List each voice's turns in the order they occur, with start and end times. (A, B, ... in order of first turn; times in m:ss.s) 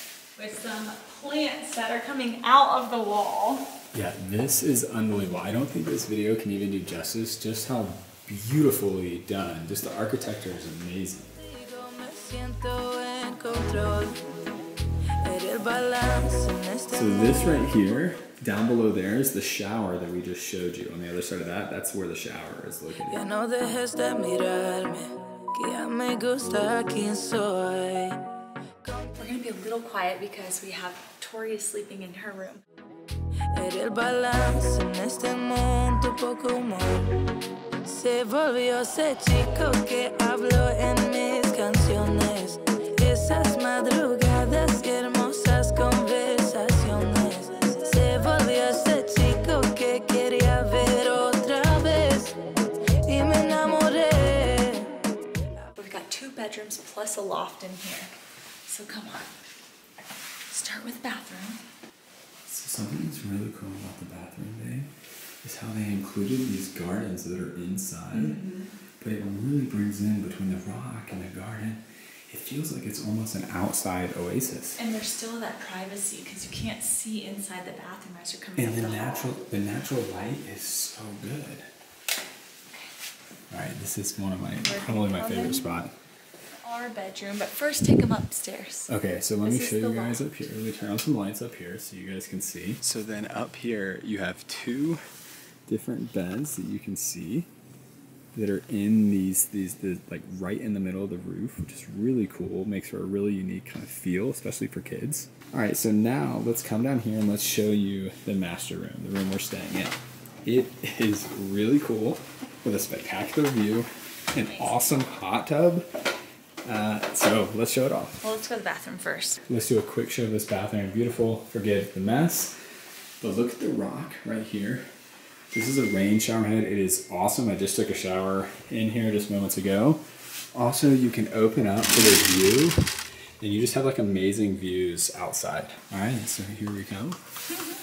0:00.4-0:03.6 A
0:03.9-0:11.3 B
0:11.4-0:14.2 C
0:15.2-0:17.8 C
0:16.9-0:23.2 B
0:23.1-0:28.2 C
0:29.0-0:32.6 A
0:33.5-0:37.2 C
0:37.8-0:52.4 C
0:53.0-0:54.9 C
0:55.8-0:58.1 A
0:58.7-0:59.3 A
1:00.5-1:01.6 A
1:02.5-1:04.9 B
1:05.4-1:08.4 B
1:08.1-1:08.7 A
1:09.0-1:14.8 B
1:14.8-1:19.3 A
1:18.6-1:21.6 B
1:23.5-1:25.9 B
1:24.6-1:25.6 A
1:26.6-1:28.9 A
1:28.9-1:35.0 B
1:29.4-1:30.2 A
1:35.7-1:37.5 B
1:38.3-1:55.9 B
1:54.4-1:54.9 A
1:56.6-1:58.2 B
1:58.2-1:59.4 A
1:59.5-2:02.5 B
2:03.2-2:04.8 B
2:05.5-2:10.0 B
2:10.6-2:12.8 B
2:13.4-2:17.2 B